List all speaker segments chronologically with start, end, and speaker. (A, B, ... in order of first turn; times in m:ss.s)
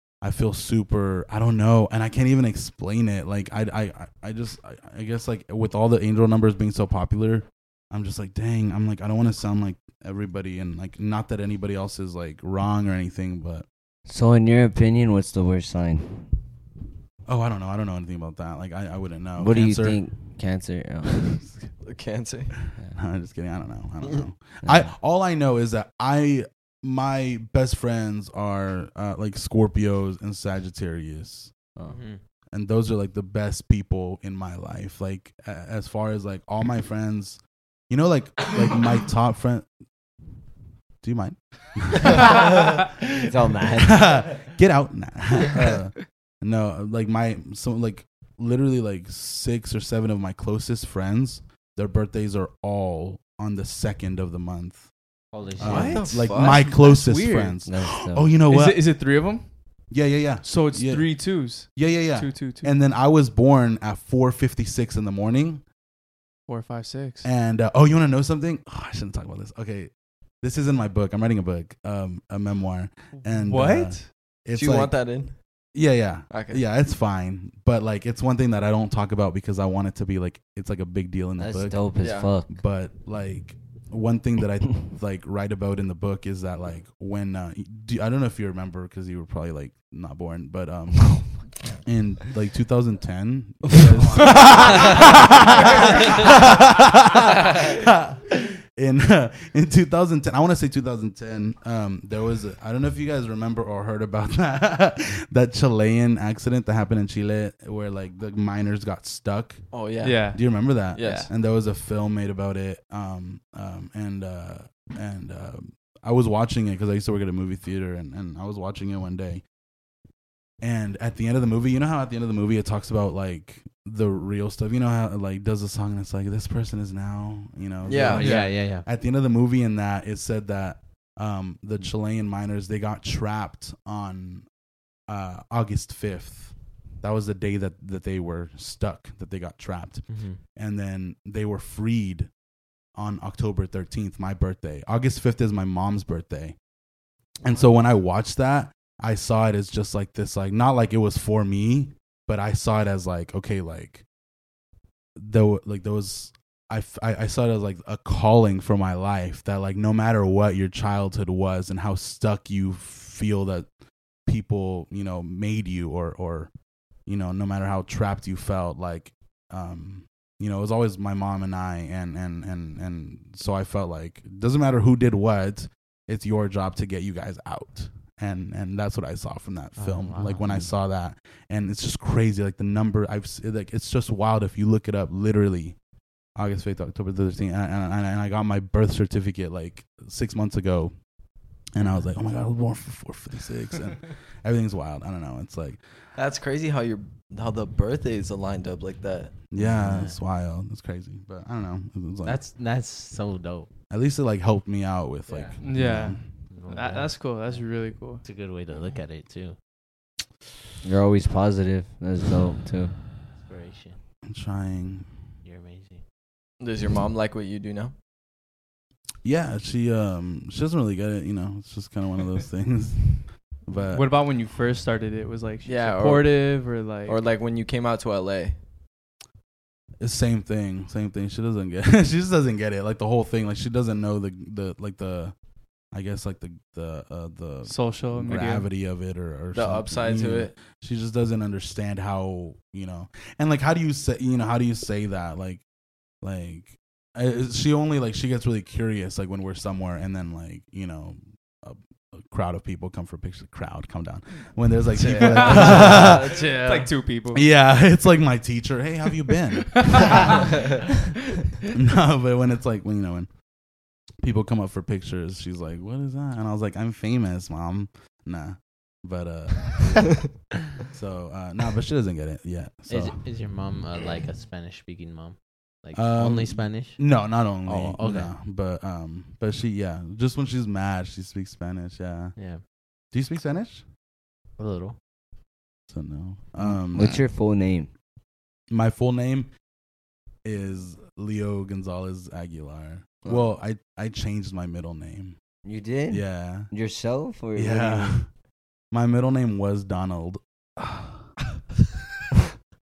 0:00.2-0:13.7 A
0:14.1-0:16.3 B
0:17.3-0:20.4 A
0:19.4-0:21.5 B
0:21.3-0:21.7 A
0:21.8-0:22.5 C
0:23.0-0:31.5 A
0:24.6-0:24.9 B
0:31.9-0:32.2 D
0:32.5-0:39.7 A
0:41.0-0:42.7 A
0:43.1-0:44.4 B
0:43.5-0:54.9 A
0:55.3-0:56.0 D
0:55.6-0:58.9 A
0:55.6-0:57.6 E
0:55.6-0:56.6 C
0:57.6-0:58.4 B
0:58.5-0:59.5 E
0:59.9-1:05.6 A
1:00.4-1:02.7 E
1:06.5-1:07.3 E
1:07.2-1:15.1 A
1:13.2-1:14.1 E
1:14.5-1:15.4 C
1:15.7-1:49.6 A
1:16.3-1:16.6 C
1:21.4-1:22.6 B
1:22.0-1:22.4 C
1:49.7-1:50.3 C
1:50.0-1:50.4 E
1:50.3-1:59.4 A
1:50.9-1:51.3 C
2:00.6-2:14.5 A
2:07.8-2:08.3 C
2:08.1-2:08.9 D
2:15.1-2:22.3 A
2:20.1-2:20.4 D
2:23.0-2:26.6 A
2:27.4-2:34.0 A
2:35.2-2:43.7 A
2:44.3-2:46.5 A
2:47.1-3:05.8 A
2:59.8-3:00.7 D
3:06.4-3:11.0 A
3:11.7-3:15.8 A
3:11.8-3:12.1 D
3:16.2-3:19.4 C
3:19.5-3:22.4 A
3:19.6-3:20.2 D
3:22.2-3:23.7 D
3:23.9-3:26.2 A
3:25.3-3:25.6 D
3:25.6-3:28.2 E
3:26.5-3:29.6 D
3:30.8-3:33.0 B
3:33.3-3:34.0 D
3:34.3-3:35.1 A
3:35.4-3:36.0 D
3:36.6-3:37.9 C
3:39.2-3:44.1 A
3:43.9-3:47.2 E
3:45.6-3:48.6 C
3:50.0-3:55.4 A
3:55.9-4:05.6 A
3:57.6-3:58.7 E
3:59.5-4:00.5 C
4:06.2-4:16.3 A
4:14.9-4:16.9 C
4:15.1-4:17.5 E
4:17.3-4:20.5 A
4:19.7-4:20.4 E
4:21.7-4:23.3 A
4:24.2-4:33.2 A
4:32.9-4:38.3 D
4:35.9-4:42.4 A
4:42.4-4:42.6 D
4:43.1-4:43.8 A
4:44.6-4:45.0 D
4:45.9-4:47.3 A
4:46.6-4:47.9 B
4:48.7-4:49.5 A
4:50.4-4:55.4 A
4:55.6-4:58.2 B
4:56.1-4:56.7 A
4:57.5-4:58.3 A
4:58.9-5:01.3 A